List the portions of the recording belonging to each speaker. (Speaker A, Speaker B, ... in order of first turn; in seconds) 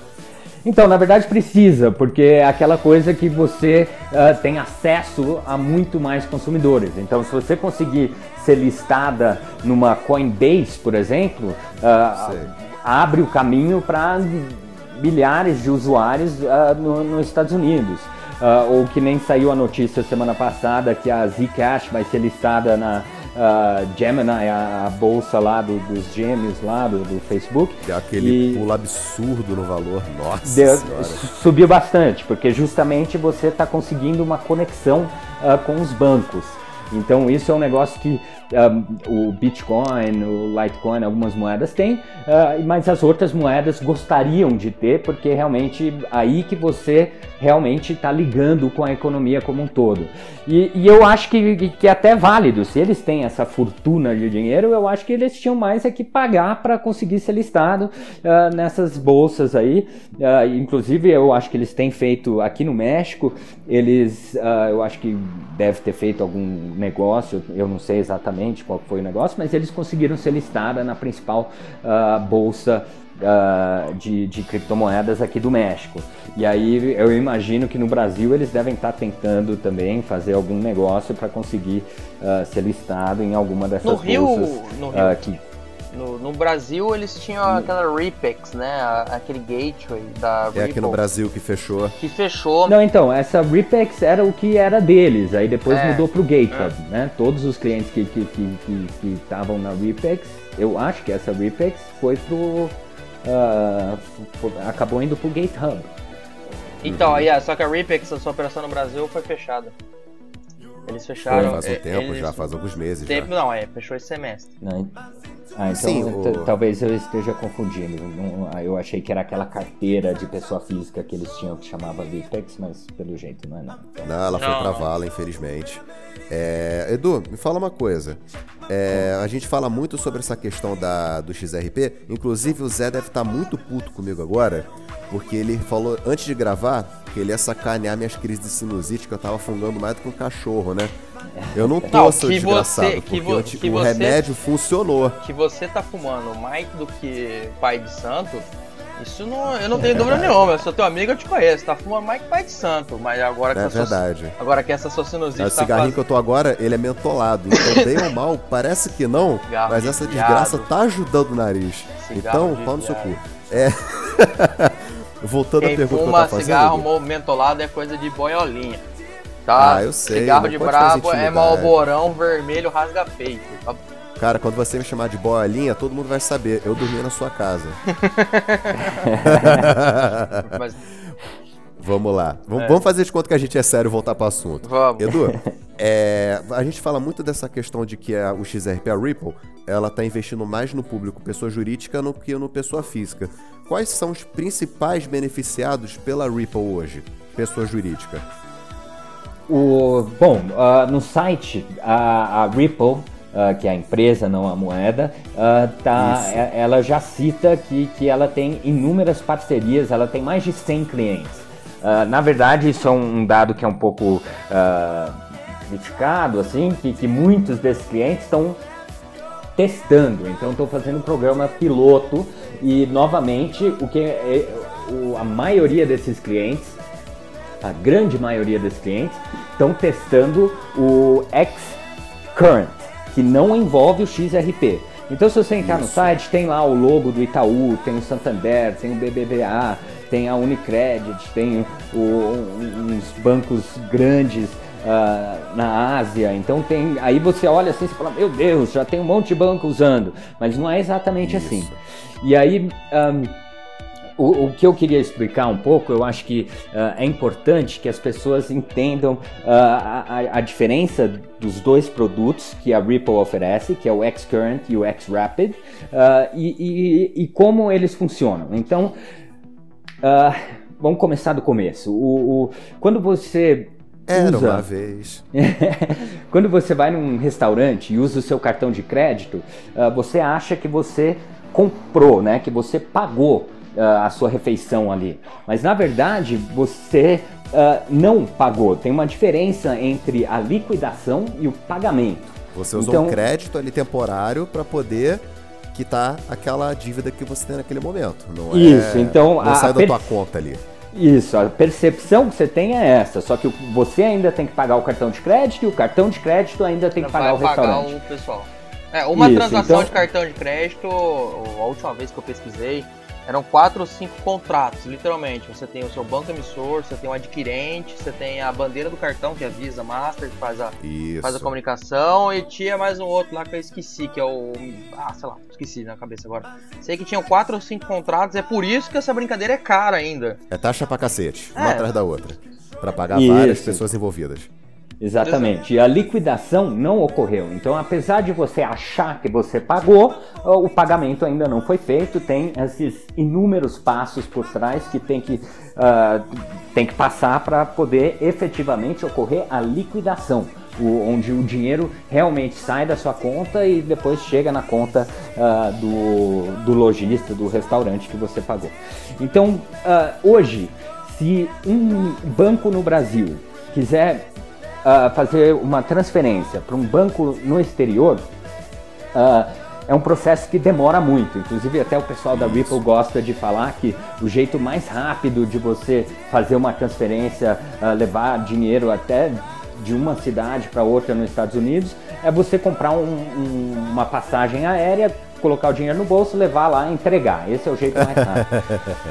Speaker A: 0.6-28.6, 30.4-85.4, 92.7-105.9, 111.3-111.6, 114.6-114.9, 115.5-124.1, 141.4-141.9, 179.0-179.6, 199.5-218.6, 219.6-226.8, 227.6-231.8, 232.3-253.4, 254.2-268.9, 270.0-274.6, 275.3-293.2, 298.5-300.2, 300.9-307.9, 309.1-309.9, 333.1-333.8, 335.0-364.3, 364.8-368.3, 369.1-388.6
Speaker B: 12.2-12.5, 27.8-31.2, 90.5-92.0, 106.8-107.3, 111.2-113.3, 115.7-116.5, 124.0-140.9, 141.5-145.2, 149.8-150.5, 153.5-154.3, 155.4-166.9, 169.6-171.8, 174.2-177.8, 179.2-180.6, 181.8-198.2, 205.9-206.4, 235.6-236.1, 251.2-251.8, 274.1-275.2, 292.5-300.6, 309.6-309.9, 320.8-321.5, 330.5-334.5, 372.3-372.8, 388.1-388.9
Speaker C: 83.8-85.3, 85.9-91.0, 92.0-92.7, 95.7-96.7, 106.8-109.7, 110.9-112.5, 113.0-114.5, 124.3-124.9, 141.9-144.2, 145.2-148.5, 149.0-156.0, 157.5-158.1, 159.5-160.7, 162.0-163.1, 165.6-168.8, 169.4-173.8, 177.9-179.0, 180.4-180.8, 184.6-185.2, 307.0-330.4, 331.5-331.9, 335.2-335.5